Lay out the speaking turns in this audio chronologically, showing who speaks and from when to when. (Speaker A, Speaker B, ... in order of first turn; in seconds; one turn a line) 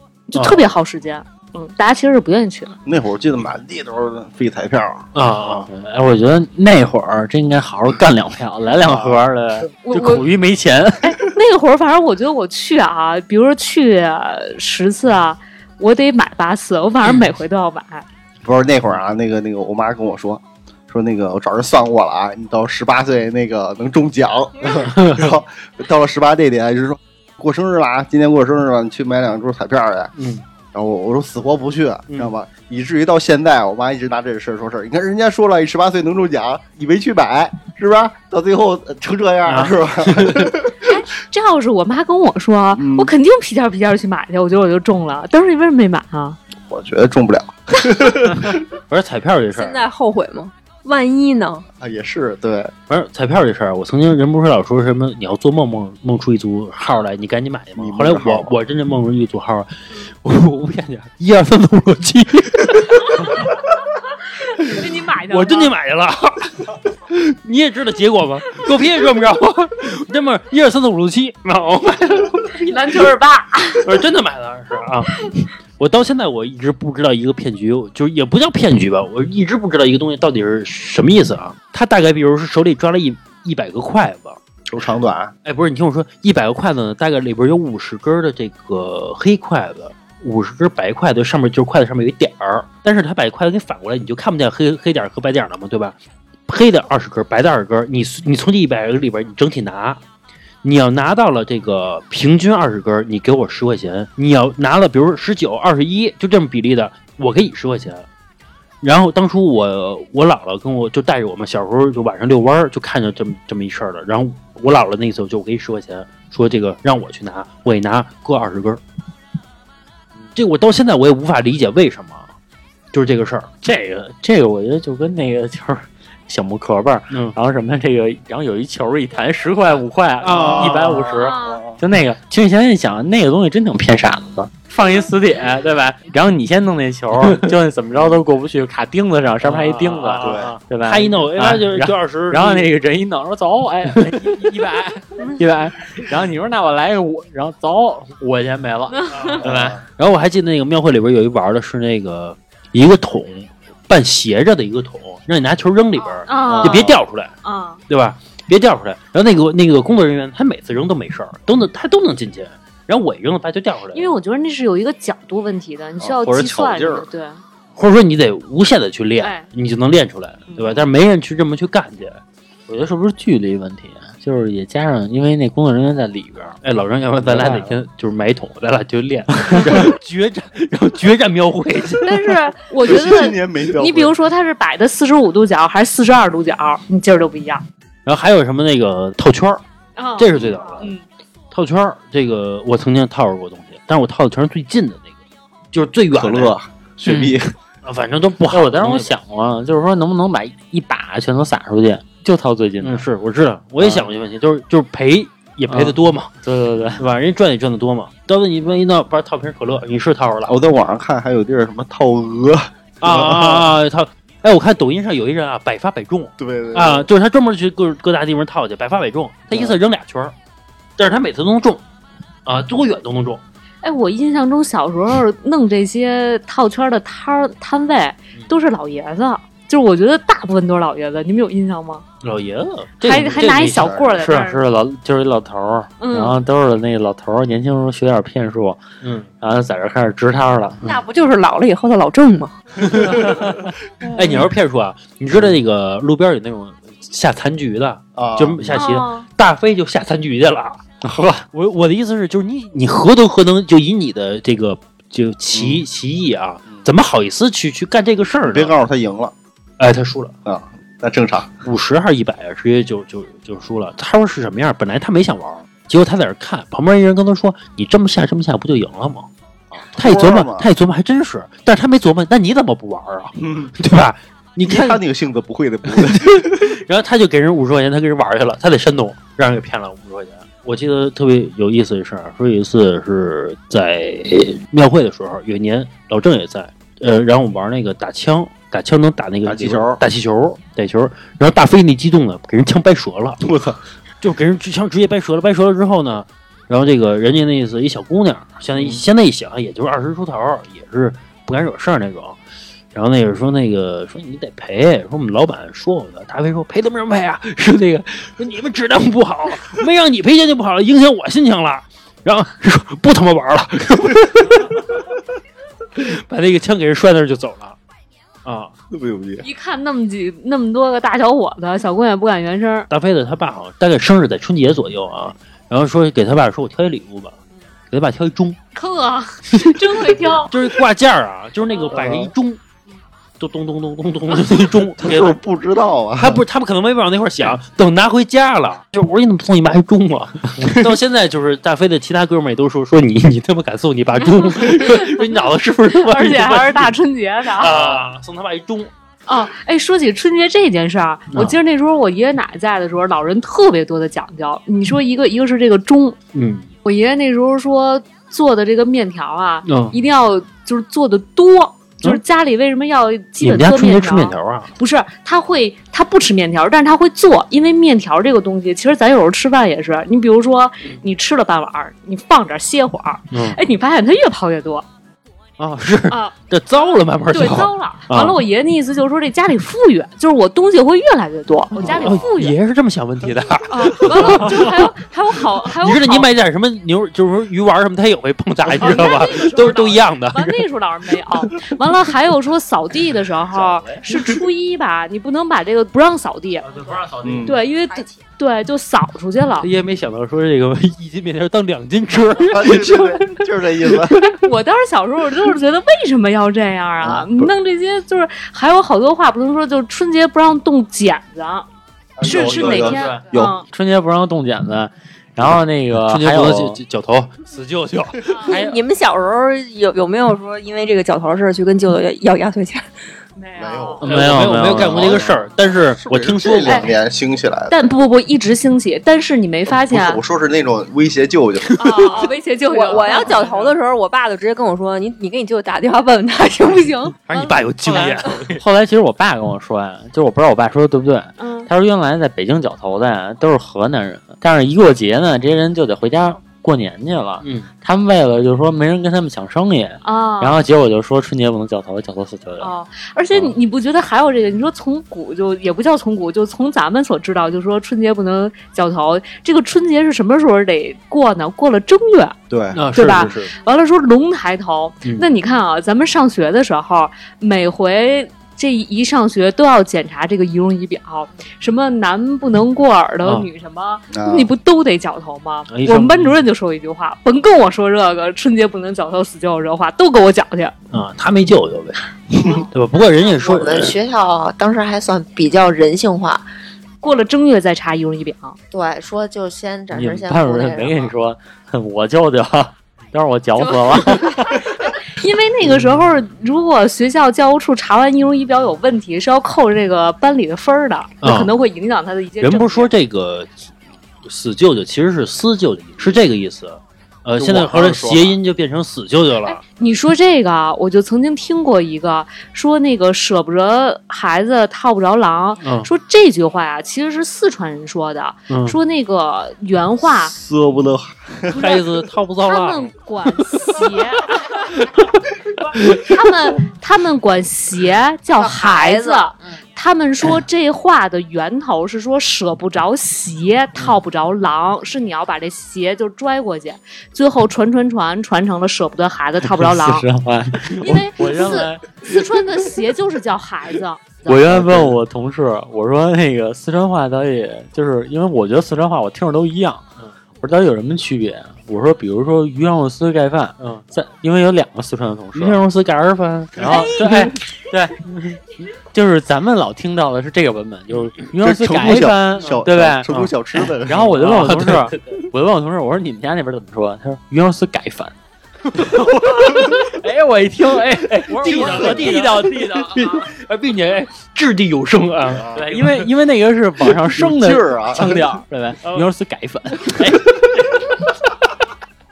Speaker A: 0.3-2.8
Speaker B: 0.3-0.7
Speaker C: 2.8-5.6
Speaker B: 5.1-5.7
Speaker D: 5.7-11.2
Speaker A: 9.8-10.2
Speaker A: 11.0-18.0
Speaker C: 18.4-30.1
Speaker B: 24.8-25.2
Speaker B: 30.1-30.4
Speaker C: 30.7-40.9
Speaker B: 39.5-40.5
Speaker A: 40.8-46.4
Speaker C: 42.8-43.1
Speaker C: 46.6-48.6
Speaker B: 48.9-49.9
Speaker E: 49.5-51.6
Speaker C: 51.8-52.7
Speaker B: 52.9-63.5
Speaker C: 57.8-58.5
Speaker B: 64.6-72.6
Speaker A: 64.6-65.7
Speaker A: 72.5-73.9
Speaker B: 73.8-84.4
Speaker C: 84.7-85.3
Speaker B: 85.5-95.9
Speaker B: 96.5-100.0
Speaker B: 100.6-108.0
Speaker B: 108.8-118.8
Speaker B: 120.3-122.3
Speaker B: 122.9-123.5
Speaker D: 123.6-149.8
Speaker B: 127.1-127.4
Speaker B: 130.2-131.2
Speaker C: 130.3-131.8
Speaker A: 131.1-131.6
Speaker B: 139.4-142.7
Speaker C: 140.2-140.5
Speaker B: 149.1-149.4
Speaker C: 149.4-149.8
Speaker B: 150.0-157.3
Speaker A: 156.2-157.8
Speaker B: 157.9-164.1
Speaker A: 163.9-167.4
Speaker C: 166.0-167.0
Speaker B: 167.8-172.2
Speaker A: 169.2-169.4
Speaker A: 170.5-170.8
Speaker D: 172.7-176.6
Speaker B: 176.6-182.3
Speaker D: 177.2-177.8
Speaker D: 179.4-179.8
Speaker A: 182.0-187.6
Speaker C: 182.8-184.2
Speaker B: 188.1-189.6
Speaker A: 190.0-191.0
Speaker B: 190.2-190.9
Speaker B: 191.5-195.1
Speaker B: 195.7-196.5
Speaker C: 196.1-197.5
Speaker B: 197.8-199.1
Speaker D: 198.5-203.1
Speaker B: 202.8-206.3
Speaker D: 203.8-204.1
Speaker D: 205.7-207.0
Speaker B: 207.0-210.5
Speaker C: 210.5-213.7
Speaker B: 213.0-220.3
Speaker C: 216.4-217.1
Speaker B: 221.0-221.8
Speaker B: 222.4-223.4
Speaker A: 223.8-232.0
Speaker B: 232.2-234.5
Speaker A: 233.0-234.6
Speaker C: 233.1-234.1
Speaker D: 234.2-238.8
Speaker A: 236.0-236.4
Speaker B: 239.0-239.3
Speaker D: 239.4-240.8
Speaker E: 240.8-242.5
Speaker B: 242.8-243.5
Speaker B: 244.1-250.8
Speaker C: 248.2-248.8
Speaker A: 248.7-249.3
Speaker D: 251.0-251.4
Speaker B: 251.5-258.8
Speaker C: 255.5-255.8
Speaker C: 258.4-259.3
Speaker B: 259.8-260.3
Speaker C: 260.4-261.5
Speaker B: 261.6-269.3
Speaker C: 269.9-270.7
Speaker B: 269.9-275.0
Speaker C: 273.4-273.7
Speaker C: 274.6-276.8
Speaker B: 275.9-293.4
Speaker C: 289.4-290.0
Speaker C: 293.4-293.8
Speaker B: 294.2-302.4
Speaker B: 302.9-315.1
Speaker B: 315.9-317.8
Speaker B: 318.4-318.7
Speaker C: 318.9-319.4
Speaker A: 319.4-322.9
Speaker B: 322.9-327.4
Speaker B: 327.9-328.6
Speaker A: 328.7-330.6
Speaker B: 329.5-332.6
Speaker A: 331.8-332.1
Speaker C: 331.9-332.3
Speaker B: 333.4-335.4
Speaker C: 335.0-336.4
Speaker B: 336.1-347.0
Speaker A: 344.3-345.3
Speaker A: 346.0-348.0
Speaker B: 347.5-348.9
Speaker A: 349.3-356.2
Speaker B: 351.3-351.6
Speaker B: 356.3-356.7
Speaker A: 356.8-374.8
Speaker B: 359.6-360.0
Speaker B: 363.4-364.7
Speaker B: 373.3-373.6
Speaker B: 375.6-378.4
Speaker A: 376.1-382.6
Speaker C: 381.8-382.2
Speaker B: 381.8-384.9
Speaker A: 383.7-386.3
Speaker B: 385.6-390.7
Speaker A: 388.8-399.7
Speaker D: 393.6-393.9
Speaker D: 396.6-397.6
Speaker C: 397.2-397.6
Speaker B: 399.6-404.2
Speaker C: 402.4-404.3
Speaker A: 404.2-411.6
Speaker C: 412.2-413.6
Speaker A: 412.2-413.6
Speaker D: 412.2-416.8
Speaker B: 415.9-418.6
Speaker A: 418.3-418.7
Speaker E: 418.5-422.9
Speaker A: 423.4-424.0
Speaker C: 423.6-427.8
Speaker D: 424.0-425.2
Speaker B: 424.0-426.9
Speaker A: 426.6-426.9
Speaker A: 427.7-430.2
Speaker C: 429.8-432.2
Speaker A: 431.8-433.7
Speaker E: 432.7-437.1
Speaker B: 437.3-438.6
Speaker A: 437.3-438.0
Speaker D: 437.9-452.7
Speaker A: 441.4-441.7
Speaker B: 447.4-447.7
Speaker A: 450.0-450.6
Speaker A: 452.6-462.4
Speaker C: 462.5-463.4
Speaker B: 462.7-463.5
Speaker A: 462.9-480.7
Speaker C: 474.1-474.5
Speaker B: 475.7-476.4
Speaker B: 480.9-484.0
Speaker F: 483.3-486.4
Speaker A: 487.0-488.6
Speaker F: 488.7-491.1
Speaker D: 489.9-494.7
Speaker A: 493.9-502.9
Speaker B: 501.2-501.5
Speaker B: 502.4-503.6
Speaker B: 504.2-509.6
Speaker C: 507.4-508.4
Speaker A: 509.4-520.3
Speaker B: 515.6-515.9
Speaker B: 518.5-518.8
Speaker C: 520.2-521.6
Speaker B: 521.5-522.9
Speaker A: 521.6-521.8
Speaker A: 522.4-524.6
Speaker B: 524.4-524.9
Speaker B: 525.8-526.1
Speaker A: 525.8-540.0
Speaker F: 528.3-529.3
Speaker D: 539.4-542.3
Speaker A: 540.8-544.3
Speaker D: 544.2-549.8
Speaker C: 544.5-545.0
Speaker D: 550.4-555.6
Speaker B: 555.3-557.3
Speaker D: 556.6-563.2
Speaker C: 561.4-564.2
Speaker D: 563.8-568.1
Speaker B: 564.2-565.2
Speaker D: 568.8-573.3
Speaker B: 568.8-569.7
Speaker B: 571.1-576.1
Speaker C: 571.5-571.8
Speaker C: 575.3-575.7
Speaker D: 575.5-580.2
Speaker C: 577.1-578.2
Speaker B: 578.8-579.1
Speaker B: 579.9-580.9